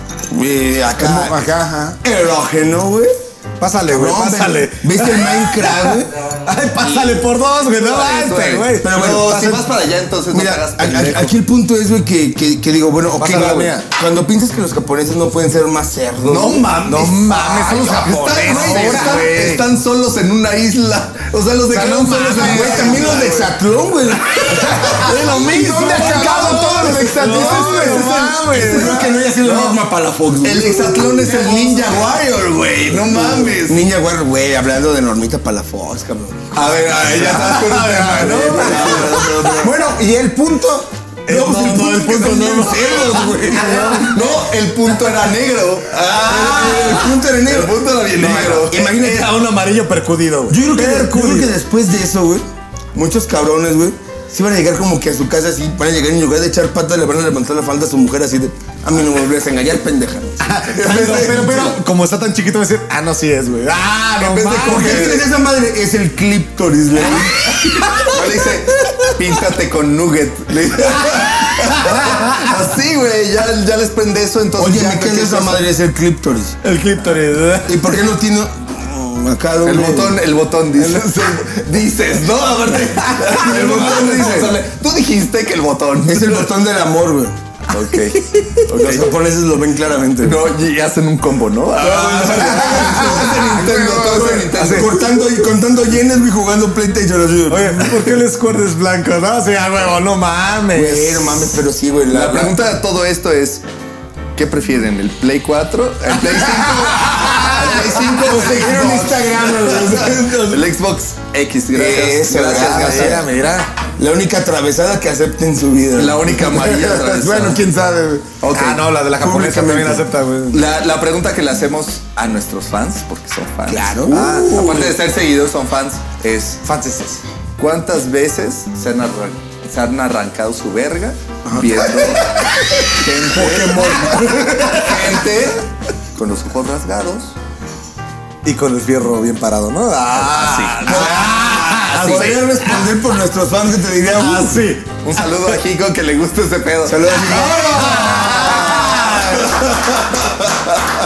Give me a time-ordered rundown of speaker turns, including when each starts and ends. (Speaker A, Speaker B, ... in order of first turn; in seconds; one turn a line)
Speaker A: 0.3-3.1
Speaker B: 3.6-9.6
Speaker A: 3.9-6.1
Speaker C: 6.8-11.3
Speaker A: 8.8-9.7
Speaker A: 10.3-16.7
Speaker B: 13.2-13.9
Speaker C: 16.2-23.5
Speaker B: 16.8-19.6
Speaker D: 18.3-19.2
Speaker B: 21.7-23.4
Speaker A: 22.3-25.2
Speaker B: 24.7-29.2
Speaker D: 24.9-28.0
Speaker C: 26.0-29.8
Speaker A: 27.2-32.2
Speaker C: 30.4-33.9
Speaker A: 33.0-36.7
Speaker C: 36.5-39.6
Speaker B: 37.1-39.3
Speaker A: 38.2-39.9
Speaker D: 39.6-40.9
Speaker B: 41.3-44.1
Speaker A: 41.3-44.3
Speaker C: 43.9-48.9
Speaker A: 46.1-49.4
Speaker B: 48.7-51.6
Speaker A: 50.5-61.8
Speaker B: 60.4-65.2
Speaker C: 60.9-61.7
Speaker C: 64.2-65.2
Speaker A: 64.6-67.6
Speaker B: 67.1-69.1
Speaker C: 68.0-75.6
Speaker B: 71.6-72.3
Speaker A: 74.6-76.6
Speaker B: 76.6-78.0
Speaker A: 77.7-80.2
Speaker C: 79.6-86.5
Speaker A: 83.3-84.6
Speaker A: 86.0-87.3
Speaker C: 87.7-89.1
Speaker A: 88.7-90.5
Speaker C: 90.2-95.0
Speaker A: 91.8-98.1
Speaker B: 94.5-94.9
Speaker B: 97.5-101.6
Speaker A: 100.7-102.6
Speaker C: 102.1-103.6
Speaker C: 104.3-113.2
Speaker A: 107.0-110.6
Speaker A: 111.7-113.3
Speaker B: 112.5-113.7
Speaker A: 114.0-118.3
Speaker C: 115.9-117.6
Speaker C: 118.4-118.8
Speaker B: 118.5-120.7
Speaker A: 119.2-120.1
Speaker C: 120.5-126.6
Speaker A: 123.7-124.6
Speaker B: 124.1-125.0
Speaker B: 126.6-127.2
Speaker C: 127.6-134.1
Speaker A: 131.4-132.2
Speaker A: 133.2-135.0
Speaker B: 134.1-134.7
Speaker C: 134.6-135.6
Speaker C: 136.2-137.3
Speaker B: 138.4-142.9
Speaker C: 140.2-142.7
Speaker A: 140.9-144.7
Speaker B: 144.1-145.1
Speaker C: 145.0-150.4
Speaker A: 146.8-148.7
Speaker B: 147.1-149.7